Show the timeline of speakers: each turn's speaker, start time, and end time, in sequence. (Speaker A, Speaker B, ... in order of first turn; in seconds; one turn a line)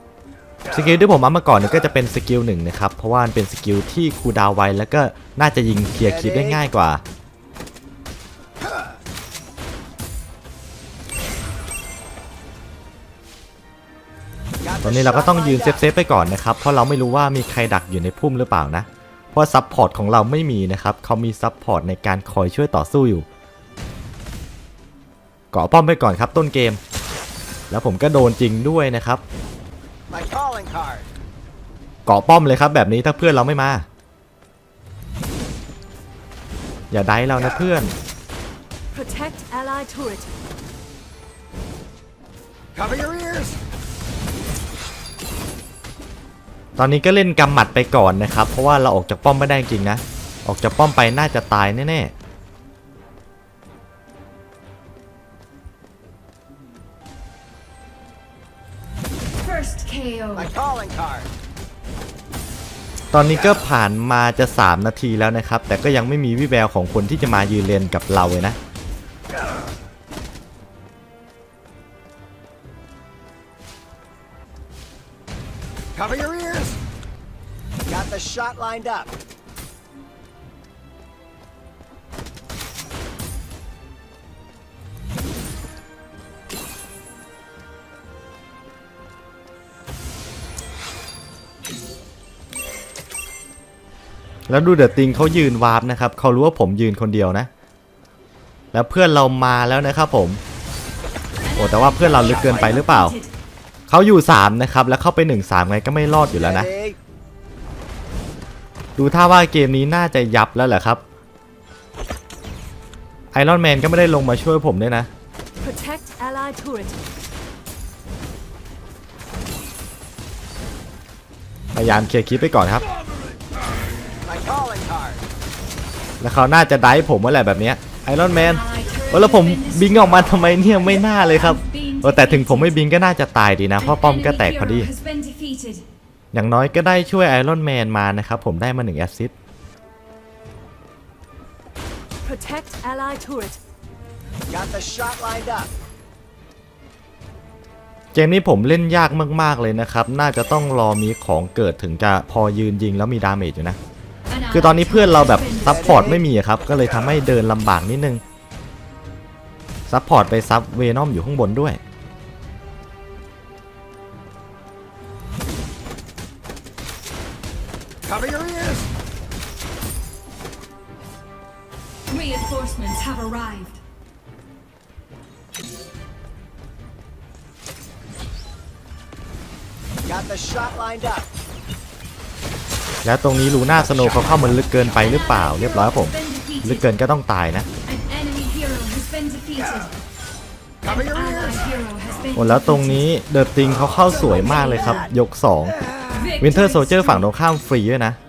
Speaker A: 0.7-7.0
Speaker B: 14.7-15.8
Speaker A: 14.8-23.2
Speaker A: 25.5-26.8
Speaker A: 27.7-29.2
Speaker B: 30.1-31.0
Speaker A: 32.0-33.9
Speaker A: 36.9-37.9
Speaker C: 38.9-40.3
Speaker B: 42.7-43.5
Speaker A: 46.8-52.1
Speaker C: 59.4-60.5
Speaker B: 60.4-61.3
Speaker A: 63.1-68.6
Speaker B: 76.0-76.8
Speaker B: 77.9-79.1
Speaker A: 94.5-97.5
Speaker A: 98.7-100.4
Speaker C: 101.5-103.3
Speaker A: 101.5-103.2
Speaker A: 103.9-106.7
Speaker B: 106.4-107.0
Speaker A: 109.0-111.0
Speaker A: 113.3-115.1
Speaker C: 115.6-117.0
Speaker A: 121.7-122.8
Speaker B: 124.2-125.2
Speaker A: 126.2-134.9
Speaker C: 128.3-132.8
Speaker C: 133.8-135.8
Speaker A: 136.3-139.3
Speaker C: 142.2-143.6
Speaker B: 144.5-145.7
Speaker A: 148.1-153.8
Speaker C: 154.3-156.2
Speaker A: 154.5-158.2
Speaker A: 159.9-161.8
Speaker B: 168.1-168.8
Speaker C: 172.1-173.8
Speaker B: 180.1-181.2
Speaker A: 183.0-187.7
Speaker B: 183.8-184.7
Speaker C: 184.8-186.9
Speaker C: 187.8-189.9
Speaker C: 190.8-193.0
Speaker B: 190.8-191.6
Speaker A: 192.3-195.8
Speaker C: 194.2-195.1
Speaker C: 196.1-197.3
Speaker A: 196.4-198.2